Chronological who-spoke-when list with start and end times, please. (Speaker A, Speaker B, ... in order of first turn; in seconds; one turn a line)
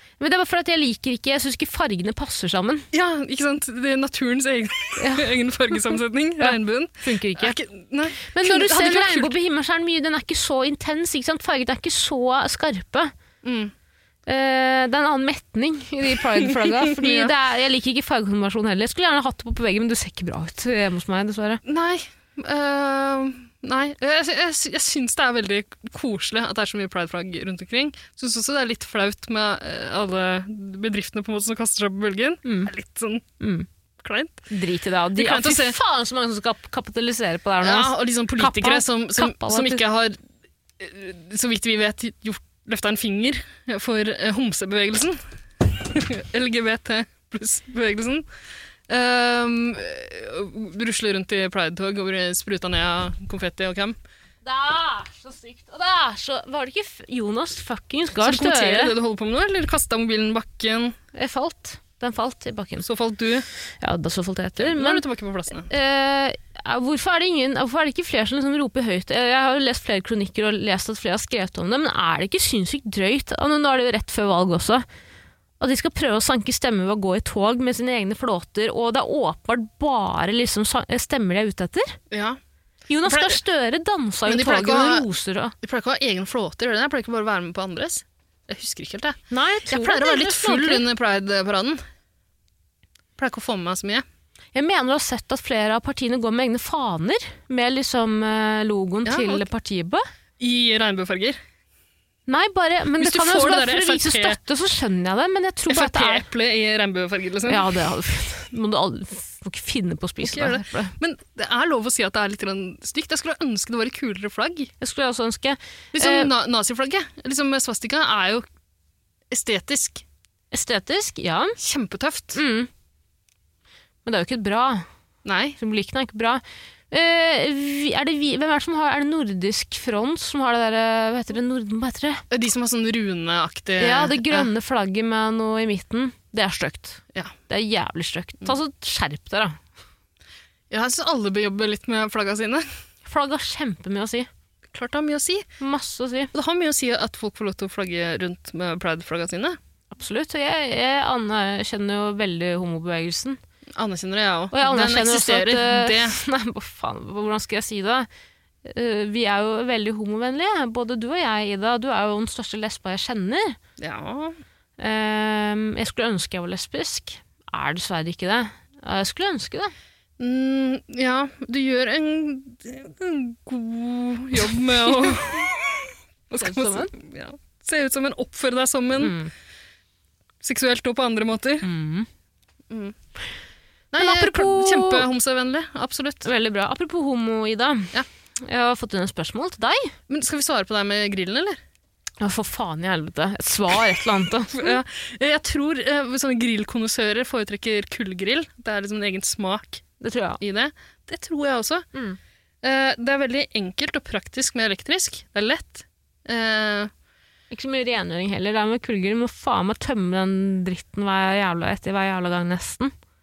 Speaker A: 0.2-2.9
Speaker B: 2.9-9.3
Speaker A: 5.0-5.3
Speaker A: 6.4-7.6
Speaker A: 8.2-13.1
Speaker B: 13.4-13.7
Speaker A: 14.2-21.6
Speaker B: 16.3-17.3
Speaker B: 21.6-33.2
Speaker A: 32.4-32.7
Speaker A: 33.4-33.7
Speaker B: 34.0-34.5
Speaker A: 34.5-39.8
Speaker B: 35.1-35.8
Speaker B: 37.6-40.2
Speaker B: 40.8-48.2
Speaker B: 48.9-54.0
Speaker A: 54.4-58.9
Speaker B: 58.2-61.0
Speaker A: 61.1-62.9
Speaker B: 62.8-63.5
Speaker A: 63.8-65.0
Speaker B: 64.6-65.7
Speaker A: 65.6-74.8
Speaker A: 75.6-82.0
Speaker B: 82.1-82.4
Speaker A: 82.9-85.5
Speaker B: 83.0-83.4
Speaker B: 84.2-85.1
Speaker B: 85.6-91.8
Speaker A: 89.3-90.8
Speaker B: 93.2-94.0
Speaker A: 94.5-100.0
Speaker B: 99.0-99.5
Speaker B: 100.4-101.4
Speaker A: 102.3-106.2
Speaker B: 103.0-104.4
Speaker B: 105.7-107.7
Speaker A: 107.5-110.9
Speaker B: 110.2-114.7
Speaker A: 114.8-116.3
Speaker B: 115.9-118.5
Speaker B: 119.3-120.0
Speaker A: 120.5-121.6
Speaker B: 121.6-122.4
Speaker A: 122.3-122.7
Speaker A: 124.0-124.8
Speaker B: 125.2-125.6
Speaker A: 125.6-132.2
Speaker B: 132.3-134.5
Speaker A: 133.8-139.6
Speaker B: 140.7-142.7
Speaker A: 143.0-144.3
Speaker B: 144.7-145.5
Speaker A: 145.6-146.3
Speaker B: 146.3-149.6
Speaker A: 149.9-153.4
Speaker B: 153.7-156.2
Speaker A: 154.5-158.1
Speaker A: 158.6-163.6
Speaker B: 163.8-164.4
Speaker A: 164.8-169.7
Speaker B: 170.2-179.2
Speaker A: 176.3-176.9
Speaker A: 179.0-179.3
Speaker B: 180.4-181.7
Speaker A: 181.6-182.1
Speaker B: 182.7-182.9
Speaker B: 183.9-186.3
Speaker A: 184.0-185.1
Speaker A: 186.2-189.9
Speaker B: 190.1-191.6
Speaker A: 192.2-194.8
Speaker B: 194.5-199.8
Speaker A: 200.0-200.4
Speaker B: 200.4-201.9
Speaker B: 202.6-206.9
Speaker A: 207.5-212.9